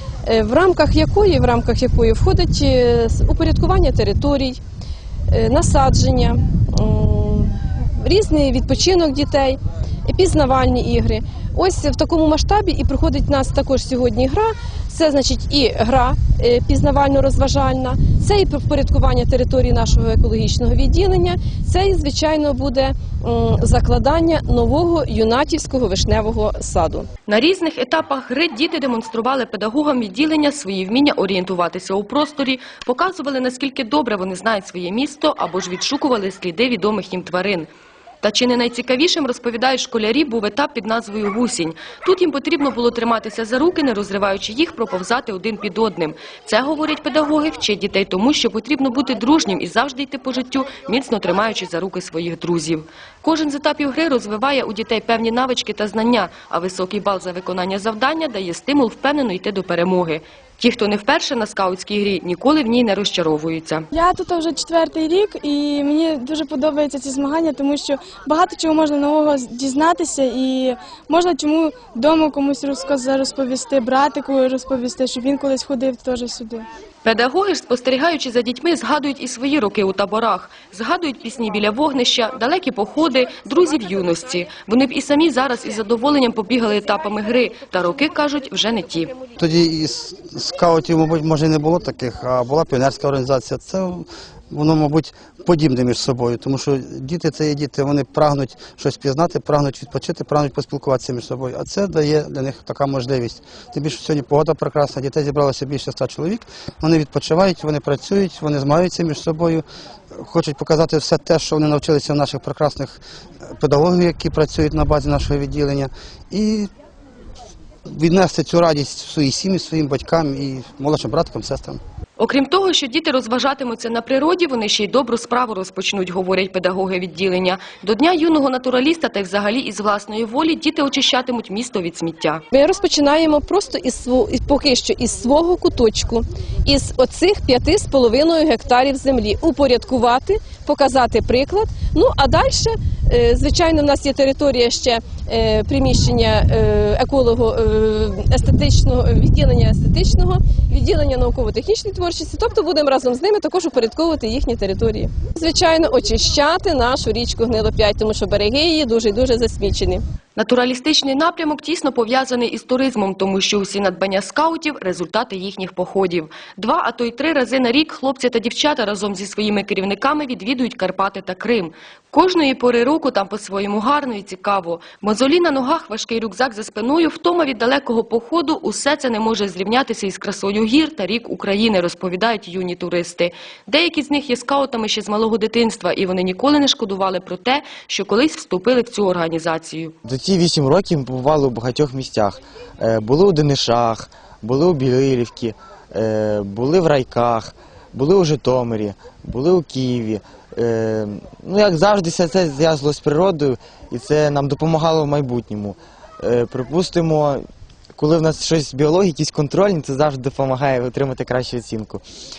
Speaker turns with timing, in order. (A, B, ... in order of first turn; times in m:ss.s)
0:00.2-0:04.6 A
0:05.3-0:27.1 A
0:27.3-0:37.7 B
0:38.2-1:03.9 B
1:03.9-1:16.7 C
1:17.0-1:29.2 B
1:29.4-1:53.0 D
1:53.5-1:56.7 D
1:57.9-2:01.8 D
2:02.2-2:12.4 B
2:12.5-2:40.0 A
2:40.4-3:09.9 B
3:10.0-3:27.4 E
3:27.9-3:32.0 E